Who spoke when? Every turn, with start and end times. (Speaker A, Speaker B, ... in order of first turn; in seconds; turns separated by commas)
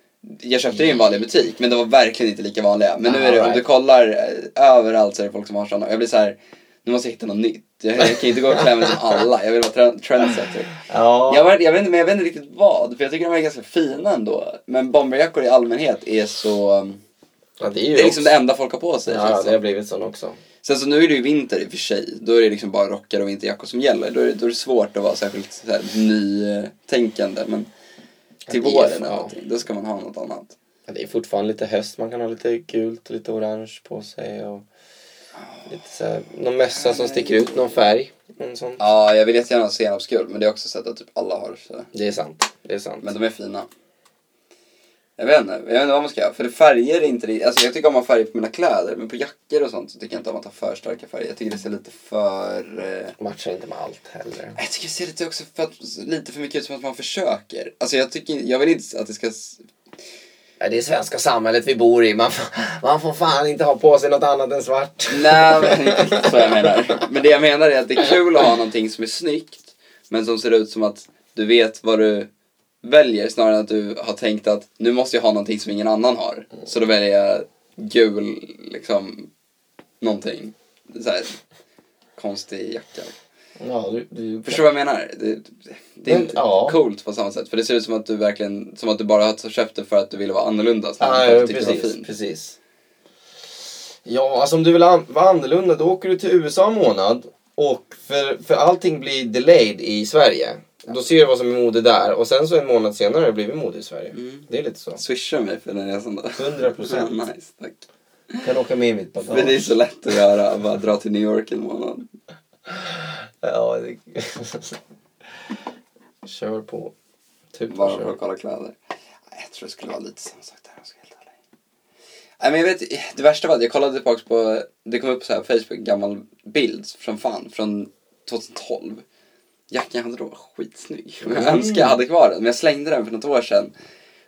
Speaker A: 0.2-17.0, Speaker B: 3.1-3.6, Speaker B: 8.0-9.0, Speaker B: 10.8-11.5, Speaker B: 17.6-18.4, Speaker A: 17.9-19.6, Speaker B: 19.1-20.4, Speaker A: 20.6-27.7, Speaker B: 28.5-29.3, Speaker A: 28.5-30.6, Speaker B: 30.9-34.7, Speaker A: 35.4-35.7, Speaker B: 35.7-38.8, Speaker A: 36.7-37.6, Speaker A: 38.8-41.9, Speaker B: 41.9-43.1, Speaker A: 43.0-43.7, Speaker A: 45.2-53.2, Speaker B: 53.2-54.6, Speaker A: 54.6-59.6, Speaker B: 60.6-66.7, Speaker A: 65.1-72.3, Speaker A: 72.8-79.3, Speaker A: 80.0-81.4, Speaker A: 82.2-83.2, Speaker B: 83.6-84.7, Speaker A: 84.4-92.1, Speaker B: 86.1-86.8, Speaker B: 91.0-92.6, Speaker B: 94.0-105.0, Speaker A: 104.1-108.5, Speaker B: 106.4-107.2, Speaker B: 108.4-109.6, Speaker A: 109.3-112.1, Speaker B: 112.7-114.8, Speaker B: 116.2-116.9, Speaker B: 117.5-118.2, Speaker A: 117.7-118.7, Speaker A: 119.3-121.3, Speaker A: 122.4-129.1, Speaker A: 129.7-133.7, Speaker B: 131.2-132.0